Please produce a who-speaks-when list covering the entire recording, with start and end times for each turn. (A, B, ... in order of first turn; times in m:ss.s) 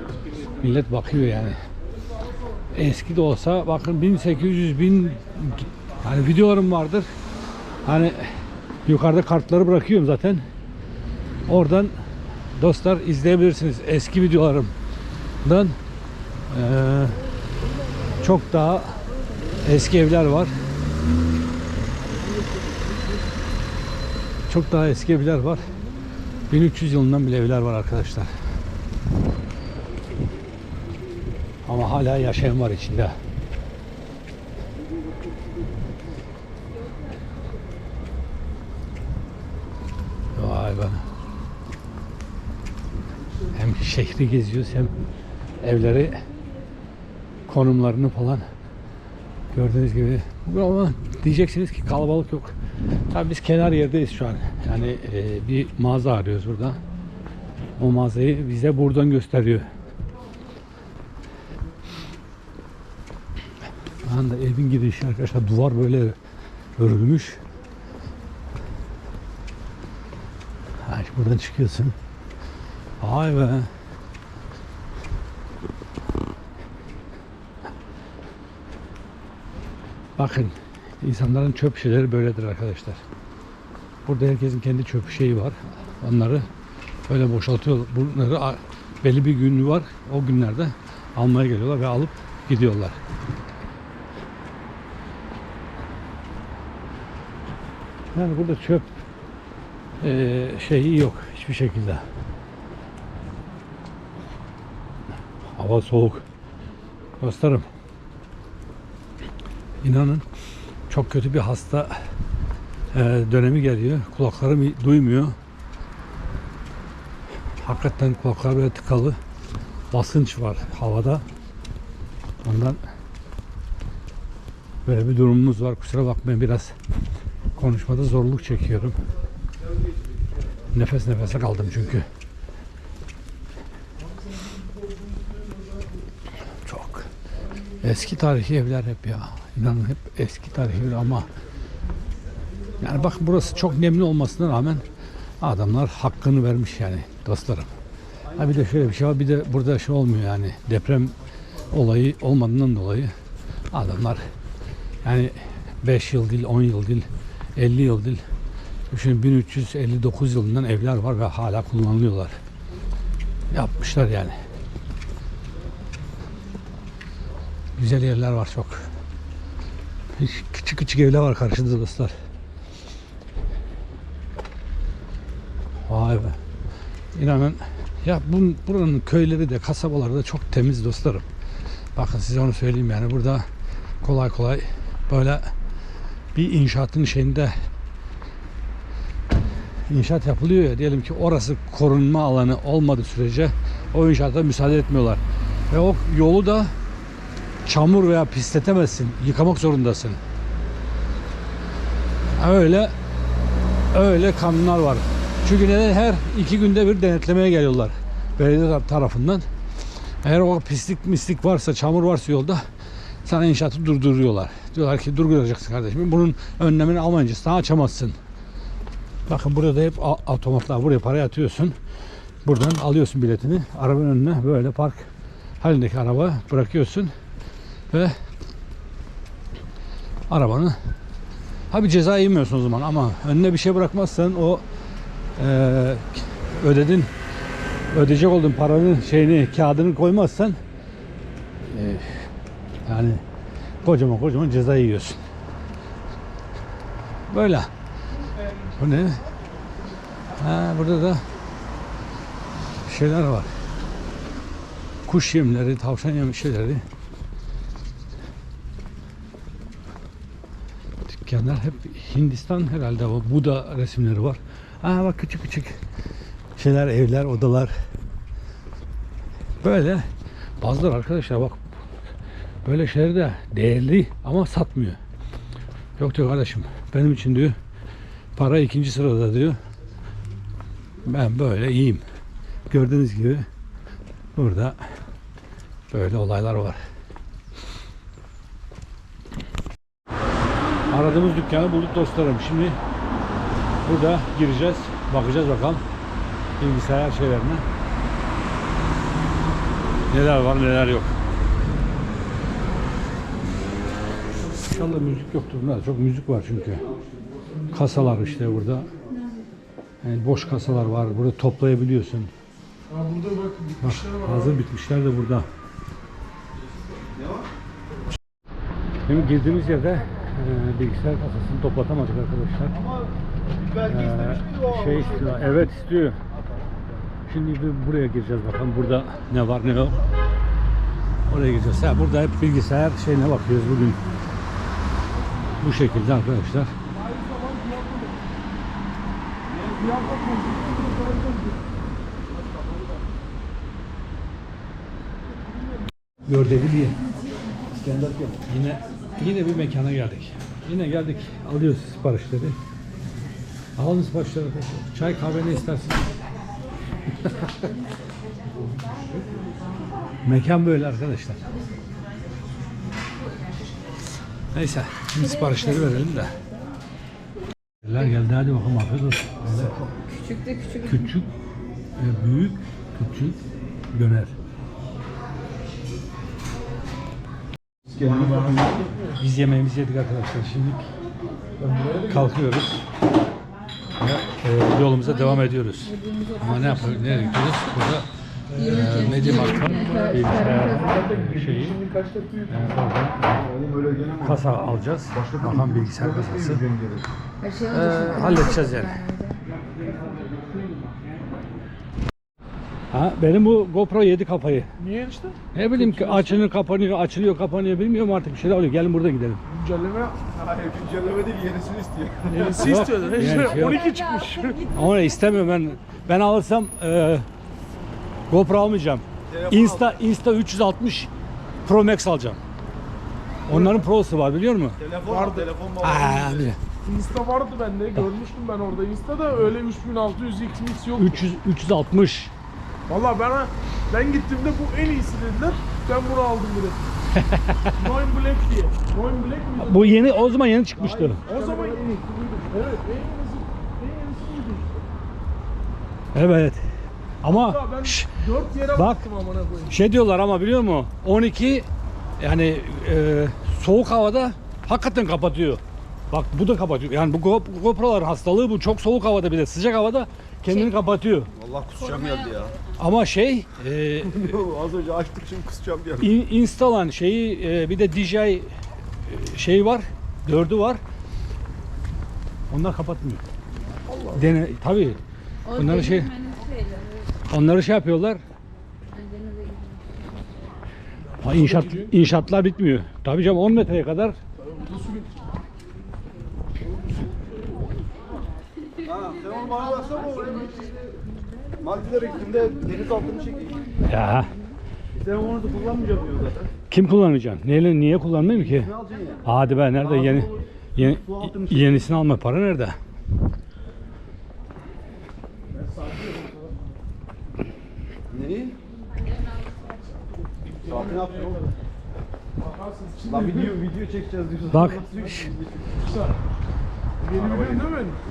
0:00.6-0:01.6 A
0:02.7-0:07.1 A
0:07.8-0:08.2 A
0:08.8-0:10.4 A
0:11.5-0:11.9 A
0:12.5-0:14.7 A
0:15.4-0:15.8 A
0:16.5-0:17.2 A
0:18.2-0:19.0 A
0:19.6-0:20.5 A
0:24.5-0:25.6 A
0:26.5-0:28.3 A
0:31.6-0:33.1 A
0:40.3-0:41.0 A
0:43.5-0:44.9 A
0:45.6-0:46.2 A
0:47.5-0:48.4 A
0:49.5-0:52.5 A
0:53.1-0:56.8 A
0:57.8-0:59.7 A
1:04.0-1:06.2 A
1:06.8-1:07.4 A
1:10.8-1:11.9 A
1:13.0-1:13.7 A
1:20.2-1:23.0 A
1:24.0-1:26.5 A
1:27.1-1:33.0 A
1:38.1-1:38.9 A
1:40.0-1:42.0 A
1:45.5-1:46.2 A
1:47.2-1:47.7 A
1:49.8-1:50.2 A
1:50.9-1:51.9 A
1:52.9-1:55.4 A
1:57.6-1:59.2 A
1:59.9-2:01.2 A
2:02.4-2:02.8 A
2:04.8-2:06.7 A
2:07.6-2:09.0 A
2:10.7-2:12.1 A
2:16.6-2:17.1 A
2:17.8-2:21.3 A
2:22.8-2:24.8 A
2:25.4-2:27.7 A
2:28.3-2:31.1 A
2:31.7-2:33.1 A
2:33.7-2:34.2 A
2:35.0-2:38.2 A
2:38.9-2:42.3 A
2:43.5-2:44.3 A
2:47.8-2:48.9 A
2:50.2-2:52.1 A
2:55.9-2:56.4 A
2:57.1-3:01.2 A
3:01.9-3:03.4 A
3:04.0-3:05.5 A
3:06.3-3:07.5 A
3:09.9-3:16.7 A
3:17.6-3:20.2 A
3:22.4-3:22.9 A
3:23.9-3:29.4 A
3:30.2-3:32.6 A
3:33.2-3:38.2 A
3:39.3-3:41.8 A
3:42.4-3:47.1 A
3:50.3-3:50.7 A
3:51.7-3:54.6 A
3:55.4-3:57.1 A
3:57.9-4:00.6 A
4:01.6-4:02.1 A
4:02.8-4:03.2 A
4:03.8-4:05.2 A
4:07.3-4:07.7 A
4:08.8-4:09.2 A
4:10.4-4:11.2 A
4:12.8-4:13.5 A
4:15.0-4:16.8 A
4:21.1-4:25.8 A
4:26.6-4:27.7 A
4:29.6-4:30.0 A
4:30.6-4:31.6 A
4:32.6-4:35.0 A
4:36.0-4:37.6 A
4:38.4-4:39.6 A
4:41.0-4:42.0 A
4:42.7-4:43.5 A
4:44.4-4:44.8 A
4:45.9-4:46.8 A
4:50.9-4:52.8 A
4:53.8-4:55.8 A
4:56.6-4:57.6 A
5:00.1-5:01.1 A
5:04.5-5:06.9 A
5:06.9-5:07.2 B
5:07.7-5:08.9 A
5:10.0-5:12.3 A
5:12.9-5:14.6 C
5:13.8-5:15.5 A
5:17.1-5:17.5 B
5:19.0-5:22.8 A
5:22.7-5:25.7 B
5:23.9-5:26.2 A
5:27.3-5:30.0 A
5:31.3-5:34.0 A
5:35.6-5:36.7 A
5:37.0-5:38.2 C
5:39.5-5:39.9 B
5:39.7-5:41.6 C
5:46.2-5:47.0 A
5:47.7-5:48.4 B
5:48.5-5:52.6 A
5:53.8-5:56.0 A
5:57.2-5:57.5 A
6:00.2-6:01.4 A
6:04.5-6:06.3 A
6:07.8-6:09.7 A
6:09.5-6:10.0 B
6:10.1-6:11.0 D
6:10.8-6:11.3 A
6:12.0-6:14.3 A
6:17.9-6:18.9 B
6:18.0-6:18.6 A
6:18.6-6:19.1 C
6:19.1-6:20.9 A
6:21.6-6:22.3 C
6:22.0-6:22.8 A
6:24.0-6:31.8 A
6:25.9-6:27.3 D
6:28.5-6:32.7 C
6:28.6-6:30.7 D
6:32.5-6:33.4 A
6:33.2-6:37.1 B
6:34.2-6:36.6 A
6:37.4-6:39.4 D
6:37.7-6:39.0 A
6:42.9-6:44.7 A
6:44.8-6:46.4 C
6:45.5-6:49.4 A
6:49.5-6:50.2 C
6:50.2-6:53.0 B
6:52.3-6:54.7 C
6:52.5-6:53.9 A
6:54.7-6:57.2 A
6:58.3-7:01.1 A
6:59.3-7:00.0 B
7:01.6-7:02.4 A
7:03.5-7:04.8 A
7:04.8-7:06.5 B
7:05.1-7:05.5 C
7:05.8-7:06.6 A
7:06.8-7:11.2 C
7:11.0-7:12.3 A
7:12.9-7:16.9 C
7:17.1-7:17.7 A
7:17.8-7:20.2 C
7:19.6-7:21.2 A
7:20.7-7:22.4 B
7:21.2-7:24.8 C
7:26.1-7:26.6 A
7:27.2-7:29.0 A
7:27.2-7:29.8 C
7:29.7-7:31.7 A
7:32.2-7:41.3 A
7:41.3-7:42.5 B
7:42.8-7:44.4 A
7:44.0-7:46.1 B
7:46.0-7:48.5 A
7:49.0-7:50.8 A
7:52.5-7:53.2 A
7:54.1-7:56.1 A
7:55.5-7:57.1 D
7:57.3-7:58.2 A
7:58.9-8:00.0 D
8:01.2-8:04.2 A
8:01.2-8:01.9 C
8:04.4-8:05.1 C
8:08.8-8:10.9 B
8:11.6-8:13.7 B
8:13.9-8:14.3 A
8:14.9-8:16.5 B
8:16.7-8:18.7 A
8:18.2-8:21.8 B
8:19.2-8:22.8 A
8:25.5-8:26.5 C
8:28.1-8:28.6 B
8:30.5-8:31.5 C
8:30.6-8:31.4 B
8:32.4-8:33.6 C
8:33.0-8:35.8 B
8:34.5-8:35.2 A
8:35.8-8:36.2 C
8:37.0-8:38.0 C
8:37.0-8:38.0 B